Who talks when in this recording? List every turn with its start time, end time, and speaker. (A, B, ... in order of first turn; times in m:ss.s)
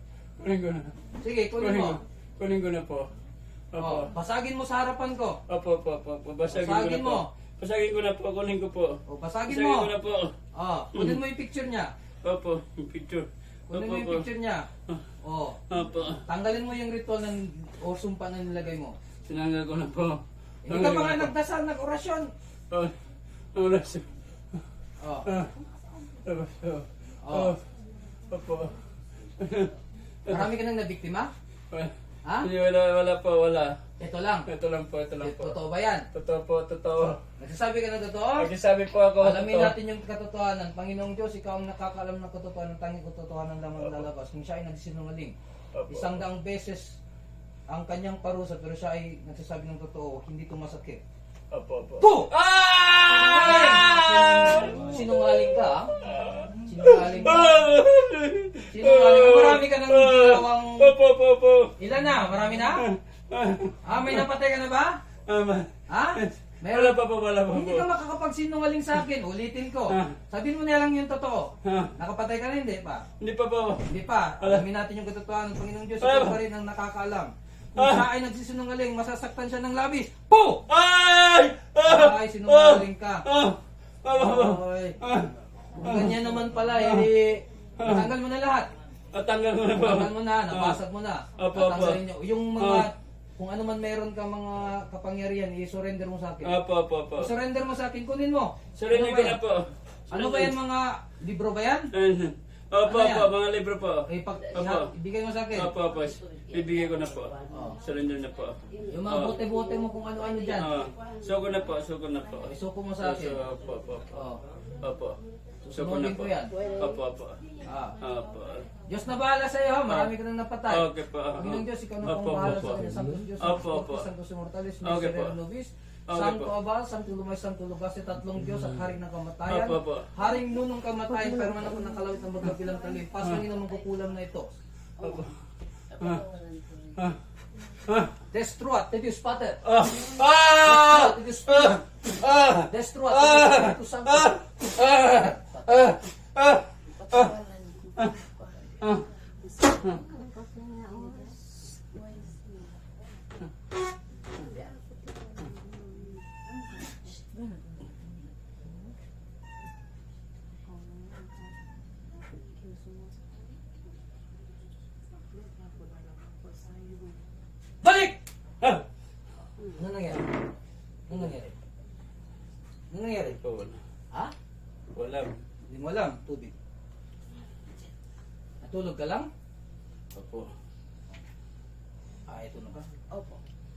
0:00.4-0:00.9 A
0:01.2-0:02.0 B
0:01.6-0:03.1 A
0:03.7-0:04.1 A
0:03.8-0:05.4 B
0:05.5-0:10.3 A
0:06.5-0:07.3 B
0:09.1-0:09.9 B
0:10.6-0:11.9 B
0:10.9-0:11.2 A
0:12.2-0:14.2 A
0:13.7-0:14.7 B
0:15.2-0:15.6 B
0:15.7-0:16.2 A
0:16.3-0:19.0 B
0:19.3-0:21.3 A
0:20.7-0:22.3 B
0:23.5-0:24.1 A
0:25.0-0:25.3 B
0:25.3-0:25.5 A
0:26.2-0:27.6 A
0:27.2-0:27.5 B
0:28.3-0:28.7 A
0:29.4-0:29.7 A
0:30.3-0:31.3 B
0:32.4-0:33.8 A
0:34.0-0:34.5 B
0:34.5-0:35.6 A
0:35.2-0:36.1 B
0:36.1-0:37.2 A
0:37.4-0:38.5 B
0:38.4-0:39.7 A
0:39.2-0:45.4 B
0:43.8-0:44.0 A
0:45.7-0:46.2 A
0:45.9-0:47.0 B
0:47.7-0:51.0 B
0:51.5-0:55.1 A
0:52.0-0:52.3 B
0:53.1-0:55.9 B
0:56.0-1:01.7 A
0:56.7-0:57.6 B
0:58.7-1:00.9 B
1:01.8-1:02.8 B
1:02.8-1:04.3 A
1:03.8-1:05.0 B
1:05.3-1:07.9 A
1:05.9-1:07.0 B
1:07.5-1:13.0 B
1:09.9-1:10.2 A
1:11.6-1:11.9 A
1:13.2-1:13.9 A
1:13.9-1:20.6 B
1:16.0-1:16.4 A
1:17.8-1:18.0 A
1:20.7-1:25.3 A
1:21.8-1:23.2 B
1:24.1-1:25.0 B
1:25.8-1:28.7 B
1:25.8-1:26.2 A
1:26.8-1:27.1 A
1:27.8-1:28.1 A
1:29.1-1:30.8 A
1:29.8-1:36.5 B
1:31.4-1:32.0 A
1:32.6-1:32.9 A
1:36.4-1:37.3 A
1:37.2-1:39.4 B
1:38.8-1:40.5 A
1:40.1-1:41.9 B
1:41.9-1:44.9 A
1:42.8-1:43.3 B
1:44.1-1:45.7 B
1:45.6-1:49.4 A
1:47.5-1:47.8 B
1:48.9-1:50.8 B
1:50.5-1:54.2 A
1:52.4-1:53.4 B
1:54.1-1:54.4 B
1:54.8-1:55.2 A
1:55.6-1:56.5 B
1:55.8-1:57.4 A
1:57.7-1:58.0 B
1:58.0-1:58.7 A
1:58.9-2:00.8 B
2:00.7-2:02.8 A
2:01.4-2:14.5 B
2:03.4-2:04.1 A
2:04.8-2:05.4 A
2:06.1-2:06.5 A
2:09.5-2:10.1 A
2:15.0-2:15.4 A
2:16.0-2:16.3 A
2:16.0-2:16.9 C
2:17.9-2:18.1 A
2:18.3-2:19.6 B
2:19.6-2:27.4 A
2:20.6-2:21.8 B
2:22.7-2:25.9 B
2:27.1-2:28.8 C
2:28.8-2:29.1 A
2:29.6-2:32.1 C
2:29.7-2:30.0 A
2:42.7-2:43.0 C
2:46.0-2:47.0 C
2:47.8-2:48.2 B
2:49.8-2:50.4 B
2:51.1-2:51.6 B
2:52.9-2:53.4 B
2:53.3-2:53.8 A
2:54.9-2:55.4 A
2:55.7-2:56.5 B
2:58.6-2:59.3 B
3:00.1-3:00.5 A
3:02.3-3:02.9 B
3:03.1-3:03.4 C